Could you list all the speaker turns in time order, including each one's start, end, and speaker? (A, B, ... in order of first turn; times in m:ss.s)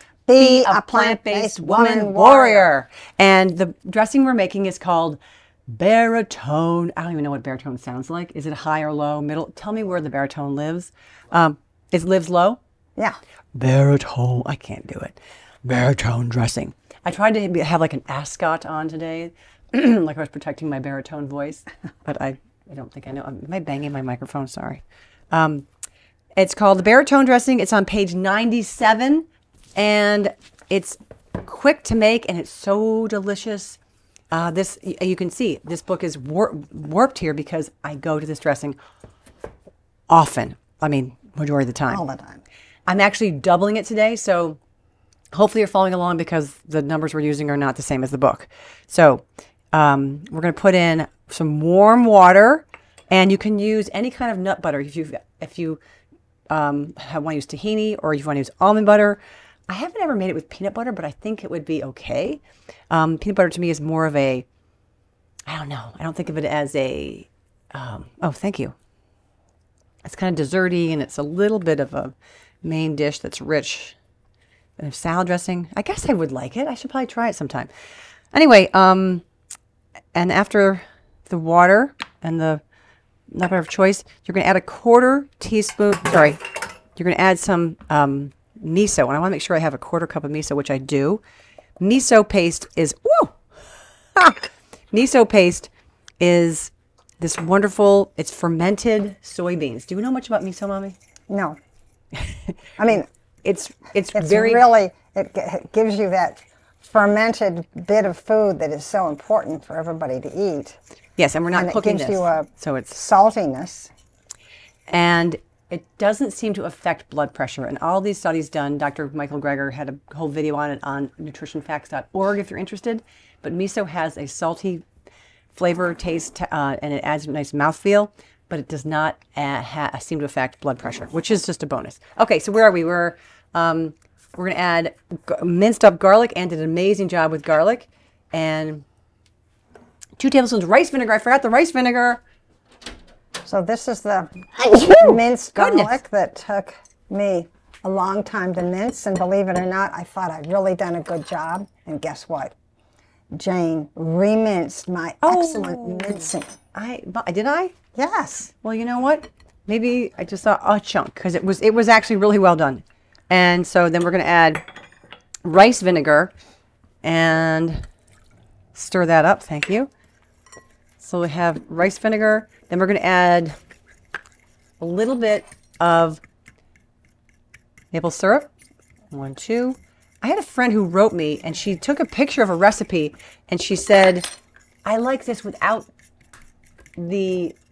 0:00.3-0:02.7 A
0:00.4-0:12.6 B
0:13.5-0:25.6 B
0:26.4-0:33.8 B
0:34.3-0:38.8 B
0:40.1-0:42.0 B
0:41.9-0:42.4 A
0:42.9-0:44.6 B
0:45.3-0:55.8 B
0:56.5-1:04.4 B
1:05.5-1:08.7 B
1:10.0-1:14.0 B
1:14.8-1:17.7 B
1:18.3-1:19.2 B
1:20.1-1:22.6 B
1:23.3-1:26.4 B
1:27.0-1:31.2 B
1:31.8-1:33.3 B
1:34.2-1:41.0 B
1:41.3-1:41.6 A
1:42.1-1:42.6 B
1:42.8-1:43.0 A
1:43.4-1:44.6 B
1:44.1-1:50.8 A
1:51.2-1:53.0 B
1:51.5-1:53.9 A
1:54.9-2:04.8 B
2:05.5-2:18.8 B
2:20.2-2:22.2 B
2:23.4-2:32.5 A
2:24.9-2:26.0 B
2:33.3-2:36.6 A
2:35.2-2:37.7 B
2:37.9-2:38.5 A
2:38.6-2:44.6 B
2:45.4-2:46.3 B
2:47.0-2:47.8 B
2:48.7-2:49.9 B
2:51.0-2:53.6 B
2:54.8-2:56.2 B
2:57.9-2:58.5 B
2:59.1-3:04.3 B
3:04.8-3:05.9 B
3:07.0-3:07.6 B